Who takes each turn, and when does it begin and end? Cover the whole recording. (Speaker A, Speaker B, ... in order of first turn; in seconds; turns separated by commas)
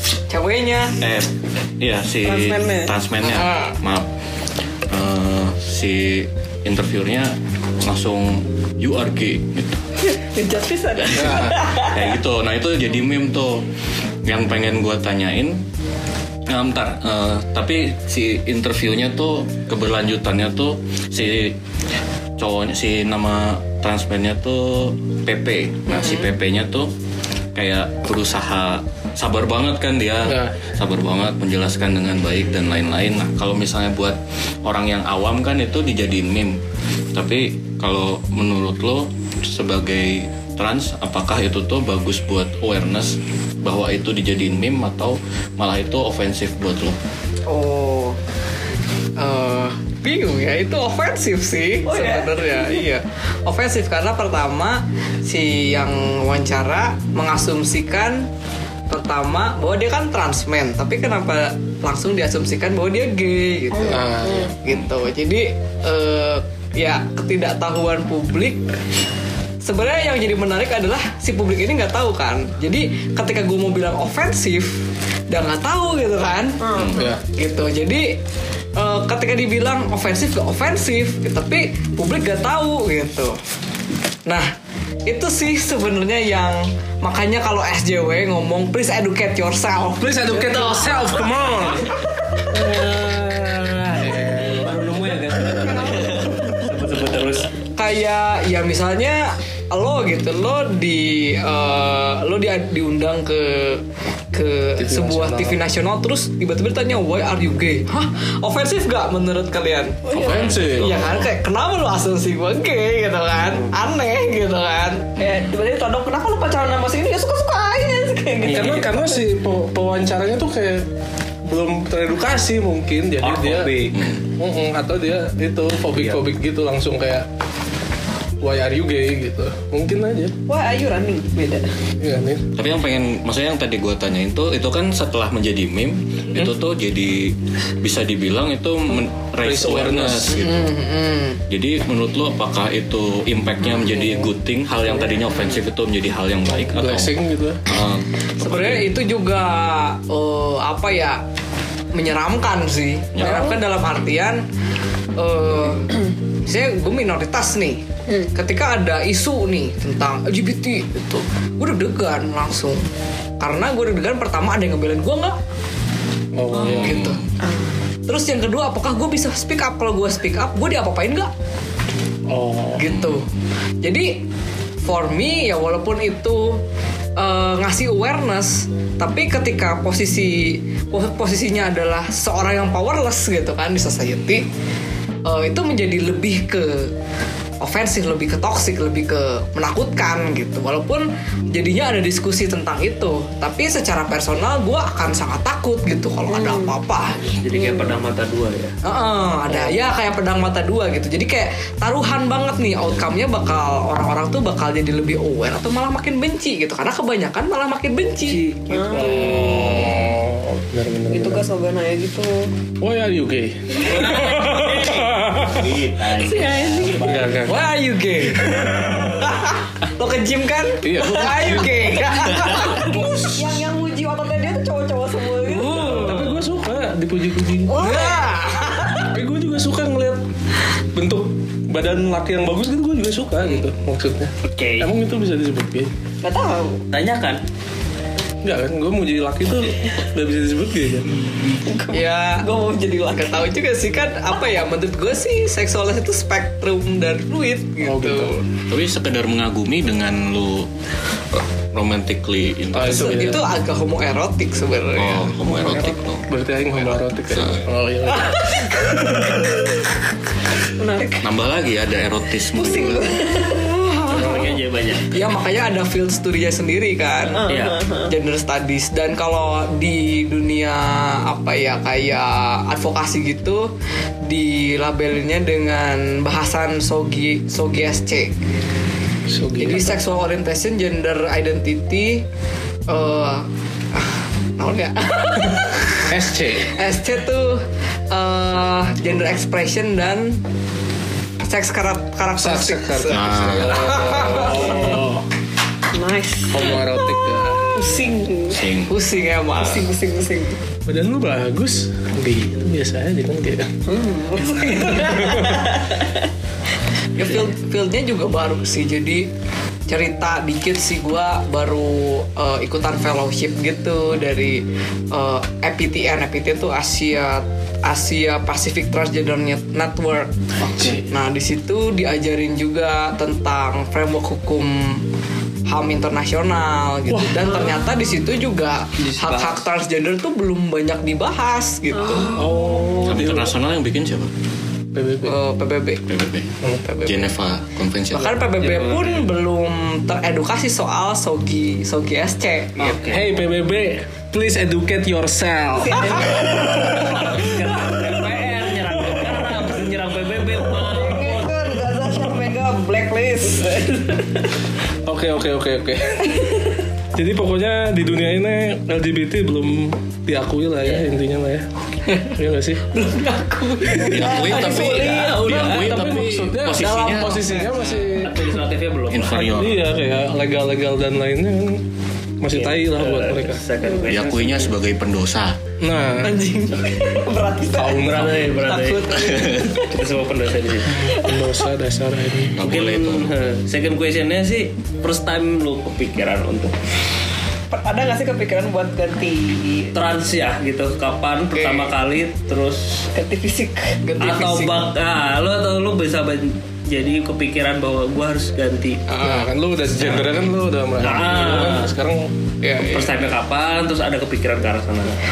Speaker A: 0.3-1.0, Speaker B: 1.0-4.1, Speaker C: 2.2-2.9, Speaker A: 3.2-3.8, Speaker B: 4.9-9.8, Speaker C: 10.0-12.1, Speaker D: 11.1-11.6, Speaker B: 11.9-13.7, Speaker B: 14.2-15.6, Speaker B: 16.5-21.6, Speaker B: 22.4-26.9, Speaker A: 25.9-26.3, Speaker B: 27.6-36.6, Speaker D: 30.2-30.6, Speaker B: 37.1-47.0, Speaker A: 47.5-48.2, Speaker A: 49.2-58.3, Speaker C: 51.9-52.9, Speaker A: 58.9-68.6, Speaker C: 63.7-64.5, Speaker D: 63.9-64.5, Speaker A: 69.6-78.2, Speaker C: 76.6-77.2, Speaker B: 76.8-77.0, Speaker A: 78.8-83.4, Speaker A: 85.1-91.2, Speaker D: 90.0-91.9, Speaker E: 92.5-97.5, Speaker D: 93.9-94.9, Speaker C: 95.5-96.5, Speaker A: 97.8-110.1, Speaker D: 104.8-105.6, Speaker C: 110.1-110.5, Speaker B: 110.1-111.3, Speaker D: 110.2-111.0, Speaker A: 110.7-115.1, Speaker C: 115.2-119.2, Speaker D: 118.4-120.8, Speaker D: 121.5-127.3, Speaker E: 123.2-124.0, Speaker B: 123.9-124.2, Speaker D: 128.4-130.3, Speaker C: 130.5-131.7, Speaker D: 132.0-132.5, Speaker B: 132.6-140.7, Speaker D: 139.4-140.4, Speaker A: 140.4-141.4, Speaker B: 141.5-147.1, Speaker D: 143.9-144.3, Speaker D: 146.6-147.6, Speaker B: 147.7-148.9, Speaker A: 148.4-151.2, Speaker A: 151.9-154.4, Speaker B: 153.1-153.5, Speaker C: 153.2-153.6, Speaker A: 155.2-155.9, Speaker A: 156.4-157.8, Speaker A: 158.3-162.9, Speaker A: 163.4-165.4, Speaker D: 166.3-167.0, Speaker A: 166.6-167.2, Speaker B: 166.6-167.3, Speaker C: 167.4-167.7, Speaker A: 168.1-171.3, Speaker D: 172.3-172.9, Speaker A: 172.8-173.3, Speaker B: 172.9-173.2, Speaker A: 173.8-174.2, Speaker A: 174.8-176.6, Speaker A: 177.2-184.4, Speaker A: 185.2-186.9, Speaker A: 187.6-197.2, Speaker C: 196.3-196.8, Speaker E: 197.2-198.8, Speaker C: 197.6-198.0, Speaker A: 198.8-208.4, Speaker E: 208.2-209.1, Speaker C: 208.7-209.8, Speaker D: 208.9-211.5, Speaker A: 209.2-209.8, Speaker C: 211.1-212.5, Speaker D: 212.8-215.7, Speaker E: 213.8-217.4, Speaker C: 216.0-217.3, Speaker D: 217.0-217.6, Speaker A: 217.5-223.0, Speaker D: 218.3-219.3, Speaker D: 220.8-223.6, Speaker C: 222.5-226.2, Speaker E: 225.5-226.4, Speaker D: 225.5-227.9, Speaker C: 227.7-228.3, Speaker A: 227.8-229.1, Speaker D: 229.0-230.2, Speaker D: 230.9-235.9, Speaker E: 234.5-234.9, Speaker C: 236.2-236.8, Speaker E: 236.9-237.4, Speaker D: 238.4-241.2, Speaker C: 241.6-243.5, Speaker A: 241.9-242.5, Speaker A: 243.2-248.4, Speaker D: 247.8-248.3, Speaker B: 248.7-250.7, Speaker B: 251.7-253.4, Speaker D: 252.7-253.4, Speaker A: 252.8-255.3, Speaker B: 255.0-257.6, Speaker D: 255.4-259.3, Speaker A: 258.1-259.4, Speaker C: 260.8-261.4, Speaker B: 261.2-263.2, Speaker C: 262.5-263.7, Speaker A: 263.4-264.6, Speaker E: 264.1-265.1, Speaker A: 265.1-267.5, Speaker C: 267.3-268.1, Speaker E: 267.5-267.8, Speaker A: 268.1-273.7, Speaker A: 274.2-278.3, Speaker D: 279.3-280.0, Speaker A: 279.6-282.2, Speaker A: 282.9-290.4, Speaker D: 286.1-286.8, Speaker A: 291.4-295.0, Speaker D: 292.4-295.2, Speaker B: 293.1-294.0, Speaker C: 294.6-295.1, Speaker C: 295.9-297.2, Speaker D: 296.5-297.9, Speaker C: 297.7-298.7, Speaker B: 298.5-298.9, Speaker A: 298.9-299.9, Speaker C: 299.6-300.6, Speaker D: 300.9-303.7, Speaker C: 303.9-306.3, Speaker D: 304.7-305.7, Speaker A: 307.1-309.3, Speaker A: 309.9-320.3, Speaker D: 320.6-321.1, Speaker A: 320.9-325.0, Speaker A: 325.7-332.3, Speaker D: 327.1-327.7, Speaker E: 329.0-329.6, Speaker C: 331.9-333.1, Speaker D: 332.3-333.5, Speaker B: 333.1-334.3, Speaker D: 334.9-335.4, Speaker A: 335.2-336.0, Speaker B: 336.1-336.5, Speaker A: 336.8-337.3, Speaker B: 337.1-338.4, Speaker A: 338.1-343.0, Speaker E: 338.6-339.3, Speaker E: 342.8-343.3, Speaker D: 343.1-348.1, Speaker C: 345.8-347.2, Speaker E: 346.8-351.5, Speaker C: 350.8-354.5, Speaker D: 355.1-356.5, Speaker C: 356.2-356.8, Speaker D: 357.1-361.7, Speaker D: 362.3-362.8, Speaker A: 362.9-364.4, Speaker B: 364.0-367.5, Speaker C: 364.1-365.8, Speaker E: 364.6-366.0, Speaker D: 365.4-368.6, Speaker A: 367.1-368.2, Speaker E: 368.2-369.6, Speaker B: 369.1-369.9, Speaker D: 369.3-371.8, Speaker D: 372.4-373.6, Speaker E: 372.5-374.7, Speaker C: 373.8-374.2, Speaker B: 374.1-375.6, Speaker D: 375.8-376.4, Speaker A: 376.2-377.1, Speaker C: 376.8-378.4, Speaker D: 377.7-378.6, Speaker E: 378.0-381.2, Speaker A: 378.6-379.8, Speaker B: 379.3-379.7, Speaker D: 380.9-382.6, Speaker C: 381.1-381.6, Speaker B: 382.6-383.3, Speaker E: 382.6-386.7, Speaker C: 387.7-389.9, Speaker E: 389.9-393.0, Speaker A: 391.5-391.9, Speaker C: 393.1-394.0, Speaker A: 394.0-394.8, Speaker E: 394.2-399.1, Speaker A: 399.1-399.5, Speaker D: 399.2-402.3, Speaker E: 399.9-400.3, Speaker E: 401.0-401.9, Speaker A: 402.6-403.1, Speaker E: 402.8-405.2